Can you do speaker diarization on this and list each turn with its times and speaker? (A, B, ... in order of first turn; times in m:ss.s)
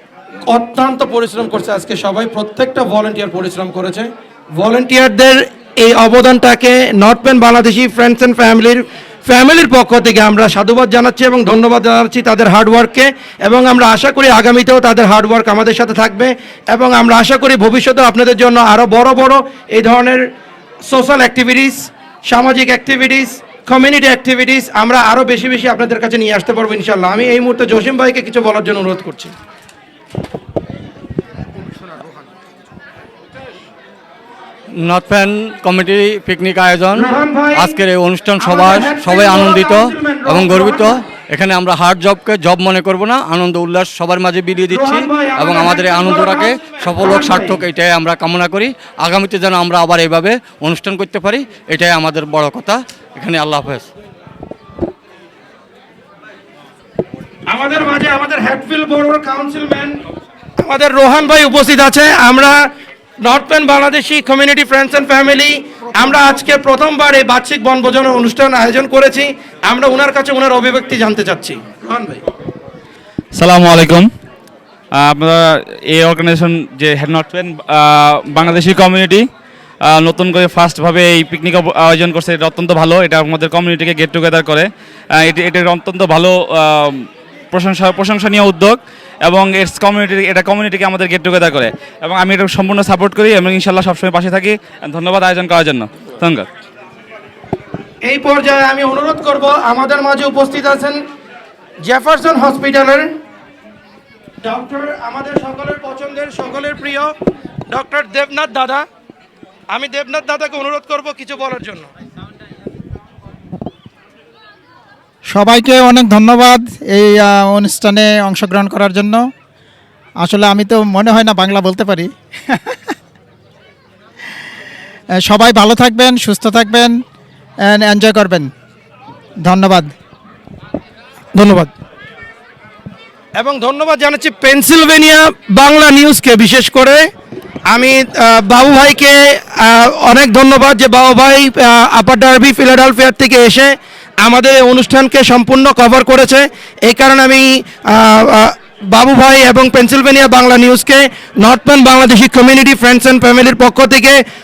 0:00.5-0:20.3 A
0:20.8-0:29.3 A
0:34.7-0:53.9 B
0:37.0-0:37.8 A
0:38.4-0:41.0 A
0:44.7-0:47.6 A
0:57.5-1:00.0 A
1:00.6-1:02.7 A
1:03.2-1:12.2 A
1:13.3-1:14.1 C
1:14.9-1:19.2 C
1:19.8-1:36.5 C
1:38.0-1:41.0 A
1:41.8-1:43.1 A
1:44.4-1:47.1 A
1:47.7-1:48.9 A
1:49.7-1:51.9 A
1:55.3-1:59.3 D
2:00.2-2:02.8 D
2:05.2-2:07.0 D
2:07.6-2:08.5 D
2:09.4-2:09.9 D
2:11.3-2:11.7 A
2:13.4-2:17.1 A
2:17.7-2:34.2 A